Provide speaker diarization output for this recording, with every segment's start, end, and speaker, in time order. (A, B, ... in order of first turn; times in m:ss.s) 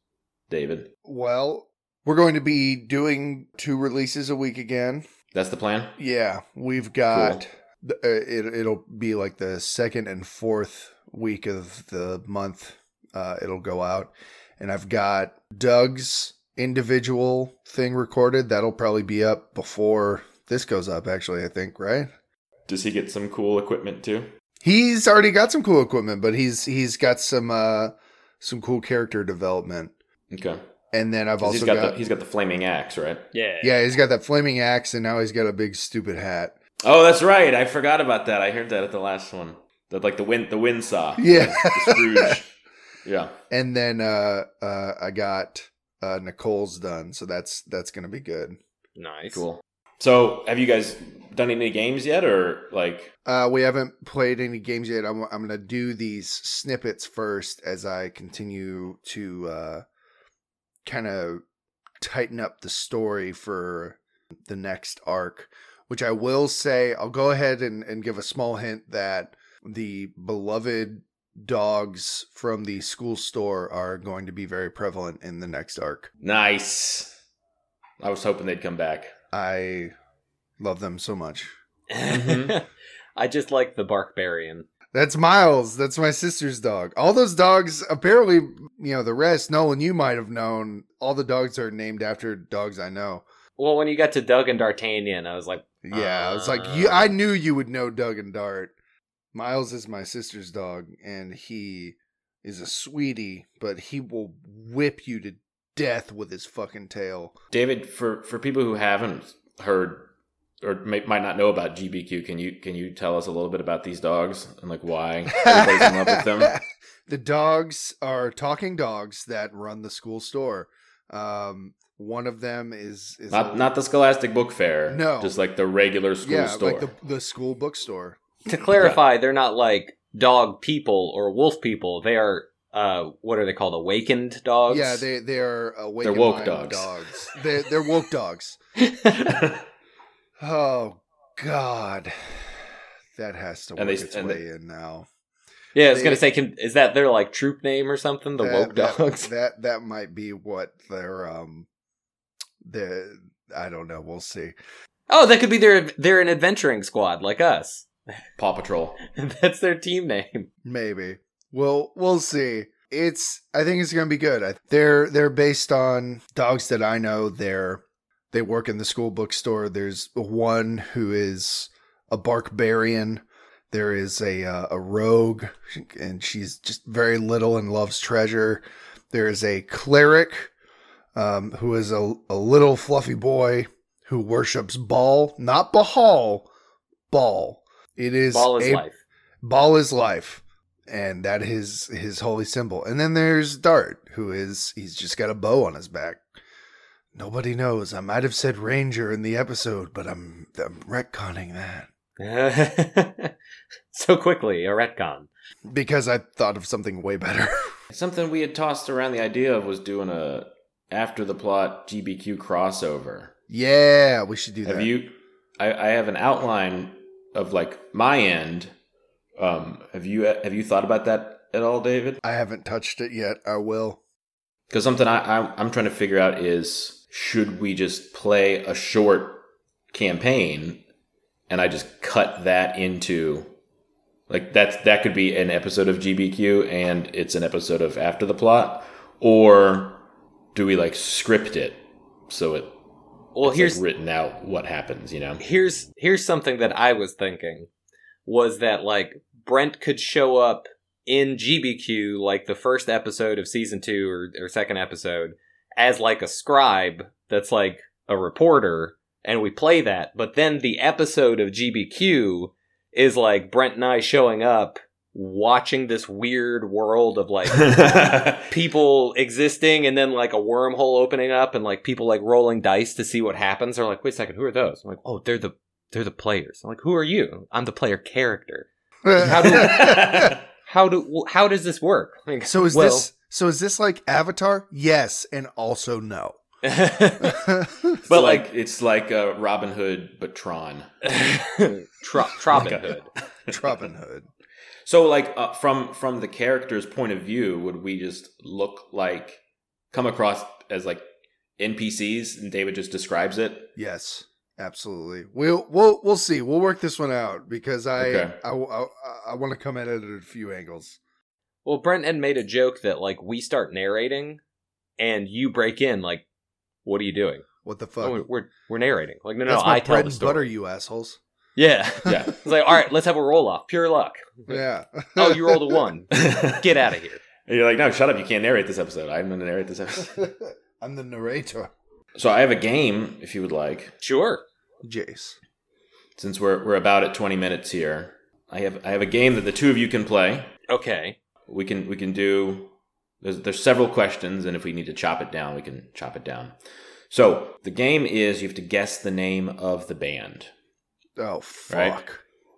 0:00.5-0:00.9 A
0:01.0-0:05.0 B
0:05.3-0:06.0 A
0:06.0-0:22.1 B
0:07.1-0:07.4 A
0:22.7-0:24.3 A
0:24.6-0:29.9 B
0:30.3-0:30.6 A
0:30.9-0:32.0 B
0:31.4-0:33.2 A
0:33.3-0:33.8 C
0:33.6-0:36.5 B
0:36.8-0:42.5 A
0:41.2-0:42.4 B
0:43.0-0:43.3 A
0:43.5-0:48.6 B
0:49.0-0:49.4 C
0:49.3-0:53.1 A
0:53.2-0:59.8 B
1:00.8-1:01.4 B
1:02.0-1:16.1 B
1:16.2-1:17.1 A
1:18.0-1:19.1 A
1:19.3-1:19.9 B
1:20.6-1:21.5 B
1:21.9-1:24.6 C
1:22.1-1:22.6 A
1:24.9-1:33.2 B
1:33.6-1:37.1 C
1:35.8-1:38.7 B
1:39.3-1:47.3 B
1:47.5-1:50.1 A
1:50.6-1:56.6 A
1:55.3-2:03.7 B
2:03.3-2:06.9 A
2:04.9-2:05.4 B
2:06.2-2:08.2 B
2:08.5-2:15.0 C
2:14.7-2:18.6 B
2:16.0-2:16.9 A
2:18.8-2:19.4 C
2:19.2-2:19.6 A
2:20.4-2:22.6 B
2:23.1-2:25.1 B
2:23.8-2:24.4 A
2:25.7-2:29.3 C
2:25.9-2:26.2 B
2:28.4-2:31.7 B
2:32.6-2:34.5 B
2:35.1-2:37.9 C
2:38.4-2:39.0 A
2:39.0-2:40.5 C
2:40.6-3:00.5 B
3:01.1-3:06.5 B
3:07.1-3:08.8 B
3:08.3-3:09.0 C
3:09.4-3:16.2 B
3:17.1-3:21.9 B
3:22.2-3:23.3 C
3:23.9-3:25.3 C
3:25.7-3:27.7 B
3:27.9-3:33.3 A
3:33.5-3:34.9 B
3:34.6-3:38.7 A
3:39.4-3:42.2 A
3:42.2-3:44.0 B
3:44.7-3:50.8 A
3:51.5-3:53.5 A
3:54.3-4:00.0 A
4:00.5-4:02.8 A
4:03.3-4:03.8 C
4:03.4-4:05.4 A
4:05.4-4:07.7 C
4:08.2-4:43.1 C
4:27.5-4:28.5 A
4:39.0-4:40.3 B
4:39.4-4:40.4 A
4:42.4-4:46.4 B
4:46.6-4:47.4 C
4:47.2-4:48.0 B
4:48.1-4:48.5 C
4:48.1-4:50.9 A
4:51.0-4:53.1 C
4:52.5-4:53.6 A
4:53.5-4:54.3 B
4:54.8-4:59.4 A
4:59.9-5:01.0 A
5:01.6-5:03.7 A
5:03.8-5:11.0 B
5:08.0-5:08.4 A
5:11.6-5:14.4 C
5:15.0-5:16.2 C
5:16.8-5:17.4 C
5:17.6-5:18.2 B
5:18.0-5:20.5 C
5:19.5-5:21.2 B
5:21.6-5:24.6 C
5:22.0-5:22.4 A
5:24.5-5:25.9 B
5:25.2-5:27.2 C
5:26.1-5:26.6 A
5:27.4-5:30.2 A
5:30.1-5:31.7 B
5:32.2-5:33.9 A
5:34.0-5:34.4 C
5:34.8-5:35.4 B
5:36.2-5:40.5 A
5:40.7-5:41.2 C
5:41.5-5:46.5 A
5:47.1-5:50.5 A
5:51.2-5:52.2 B
5:51.7-5:52.0 A